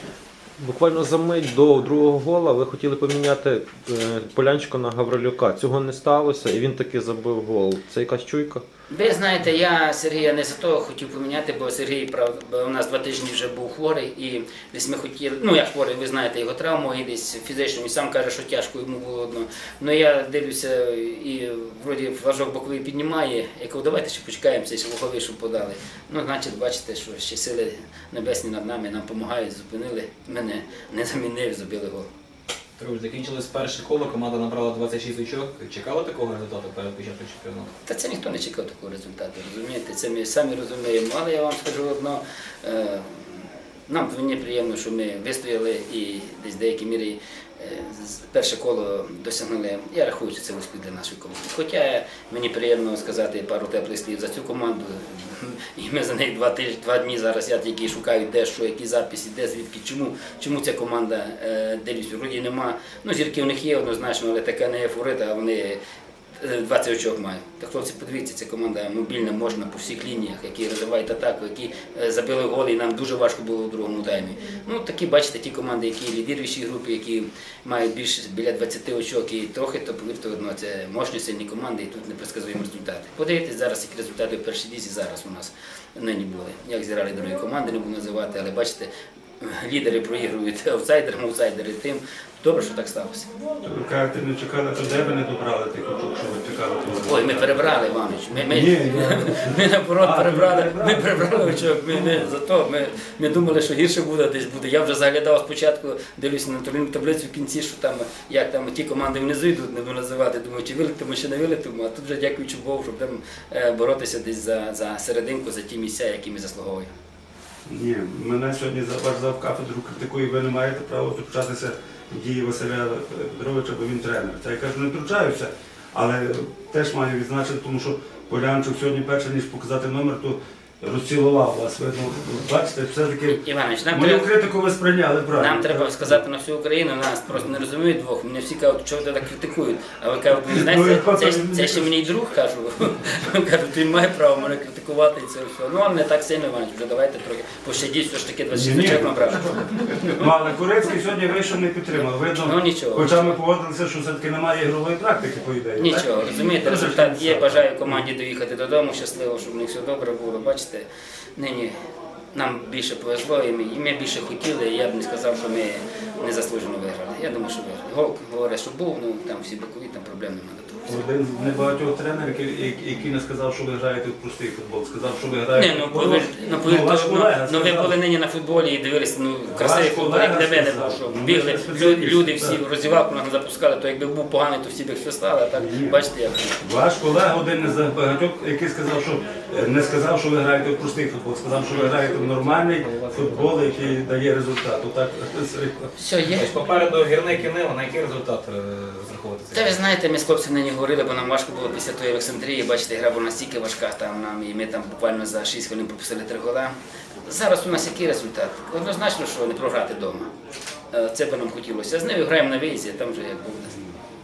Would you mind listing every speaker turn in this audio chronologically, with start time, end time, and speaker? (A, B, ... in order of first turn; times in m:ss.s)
0:00.6-0:08.6 A
0:08.9-0:32.1 B
0:32.8-0:37.7 C
0:37.8-1:05.8 B
1:06.4-1:28.9 B
1:29.4-1:33.3 B
1:33.6-1:37.6 D
1:37.0-1:56.9 B
1:38.5-1:42.3 D
1:57.7-2:16.2 D
2:13.3-2:14.3 B
2:15.3-2:30.3 B
2:20.4-2:21.9 D
2:28.5-2:38.0 D
2:32.4-2:33.2 B
2:35.8-2:41.7 B
2:42.3-2:51.0 B
2:50.9-2:57.9 D
2:55.5-3:06.6 B
2:59.5-3:02.6 D
3:05.5-3:06.0 D
3:06.6-3:15.9 D
3:11.7-3:13.9 C
3:16.0-3:16.5 B
3:16.3-3:19.8 C
3:19.5-3:30.3 B
3:30.9-3:33.8 B